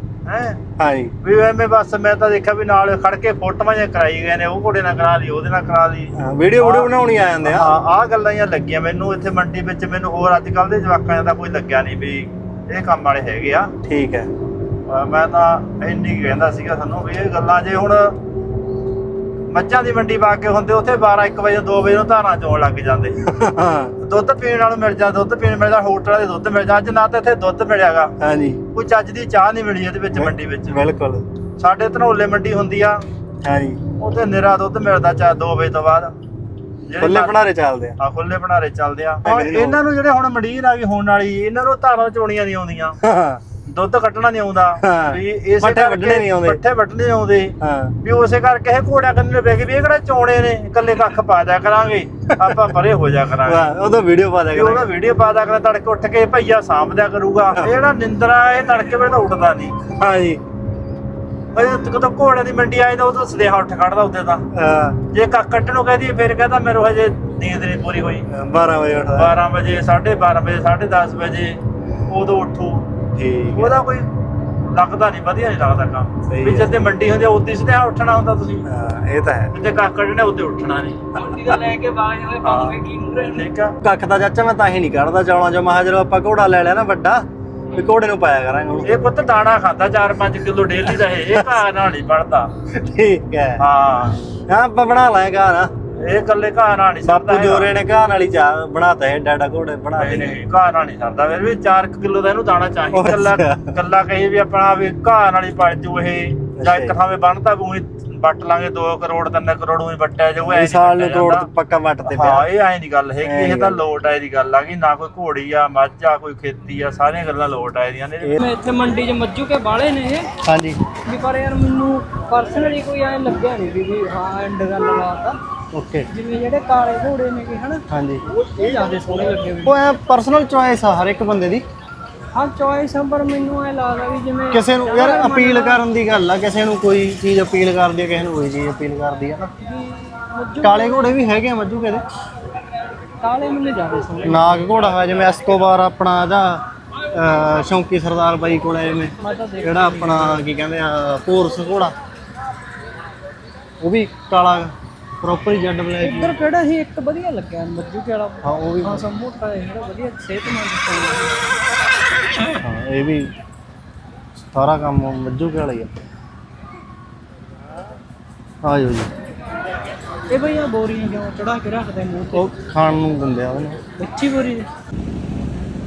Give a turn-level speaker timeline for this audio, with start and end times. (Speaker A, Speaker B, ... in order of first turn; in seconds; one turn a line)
Speaker A: 0.2-0.6
Speaker B: 0.8-1.1
Speaker A: 1.2-6.9
Speaker B: 6.2-7.7
Speaker A: 7.4-13.7
Speaker B: 13.8-14.3
Speaker A: 14.9-18.1
Speaker A: 19.5-23.1
Speaker B: 23.3-23.9
Speaker A: 24.0-28.1
Speaker B: 28.2-28.6
Speaker A: 28.7-30.8
Speaker B: 30.1-31.2
Speaker A: 31.6-33.0
Speaker B: 33.4-33.8
Speaker A: 34.0-36.1
Speaker A: 36.9-37.4
Speaker B: 37.0-38.0
Speaker A: 38.0-43.0
Speaker B: 39.2-39.8
Speaker B: 43.0-43.4
Speaker A: 43.6-53.7
Speaker B: 44.8-46.6
Speaker B: 47.6-47.9
Speaker B: 53.4-54.9
Speaker A: 54.5-59.8
Speaker B: 59.9-60.4
Speaker A: 61.5-64.4
Speaker B: 64.5-65.0
Speaker A: 65.1-68.2
Speaker B: 68.3-69.4
Speaker A: 69.2-72.9
Speaker B: 73.1-73.8
Speaker A: 73.5-74.1
Speaker A: 74.7-78.6
Speaker B: 76.3-76.7
Speaker B: 78.6-79.5
Speaker A: 79.5-81.1
Speaker C: 81.2-83.5
Speaker A: 82.4-82.8
Speaker A: 83.3-83.7
Speaker B: 83.8-87.2
Speaker B: 87.8-89.0
Speaker A: 88.8-92.5
Speaker B: 91.3-91.6
Speaker B: 92.7-93.6
Speaker A: 93.6-94.2
Speaker B: 94.5-95.7
Speaker A: 96.0-97.7
Speaker B: 97.0-100.4
Speaker A: 100.0-111.5
Speaker B: 102.9-103.7
Speaker B: 106.6-107.0
Speaker B: 110.4-112.5
Speaker A: 112.1-118.4
Speaker B: 113.2-113.8
Speaker C: 118.4-120.3
Speaker B: 120.4-120.8
Speaker C: 121.0-125.4
Speaker B: 125.7-126.1
Speaker C: 126.1-127.8
Speaker B: 127.9-128.2
Speaker C: 128.3-129.8
Speaker B: 129.6-131.6
Speaker C: 132.3-135.8
Speaker B: 134.5-139.5
Speaker C: 139.6-141.2
Speaker B: 140.6-142.0
Speaker C: 143.2-144.5
Speaker B: 144.2-151.9
Speaker C: 149.2-150.4
Speaker B: 153.8-156.3
Speaker C: 156.0-161.4
Speaker B: 158.4-159.1
Speaker B: 162.6-163.2
Speaker B: 164.5-165.9
Speaker B: 168.6-169.1
Speaker C: 170.3-172.5
Speaker B: 172.3-173.8
Speaker C: 174.0-174.7